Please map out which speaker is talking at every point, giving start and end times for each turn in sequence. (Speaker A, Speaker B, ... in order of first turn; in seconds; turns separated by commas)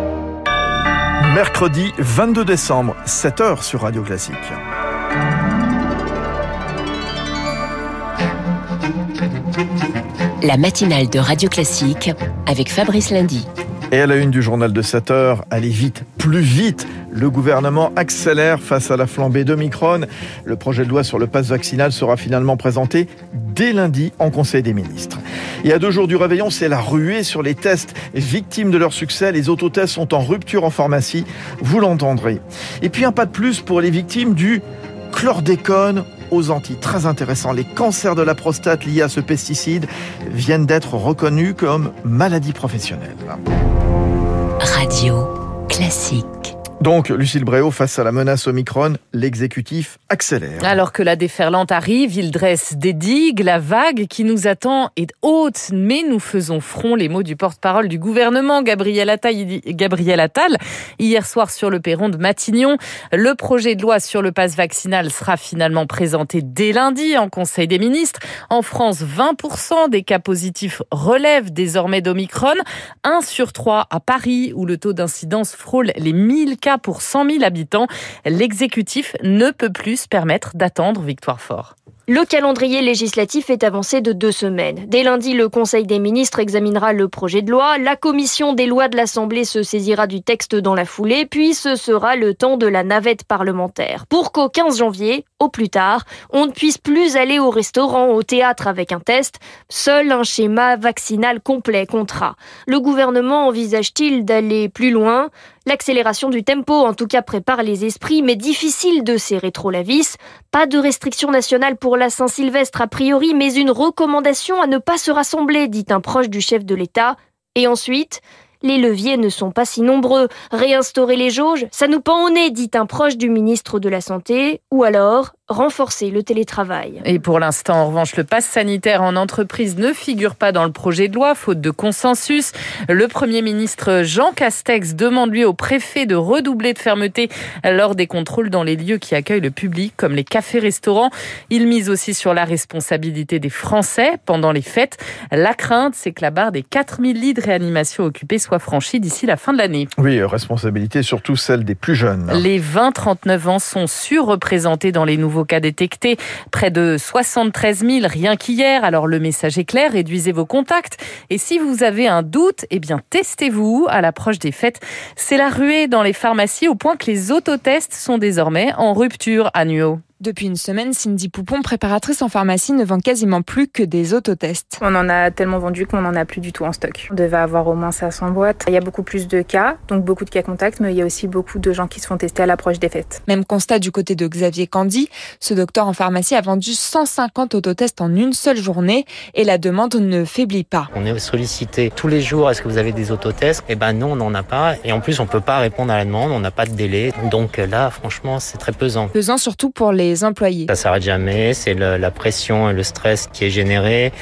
Speaker A: 1.2-4.6, Speaker B: 10.4-13.5, Speaker A: 13.9-43.4, Speaker B: 44.6-46.5, Speaker A: 46.8-50.8, Speaker C: 50.6-81.7, Speaker D: 82.1-127.0, Speaker C: 127.0-149.9, Speaker A: 150.0-152.5, Speaker C: 152.3-170.0, Speaker E: 170.2-174.8, Speaker F: 174.8-183.2, Speaker E: 183.3-190.9, Speaker G: 193.1-193.8, Speaker G: 194.5-195.7, Speaker G: 197.7-198.0, Speaker E: 199.1-200.7, Speaker G: 202.2-203.4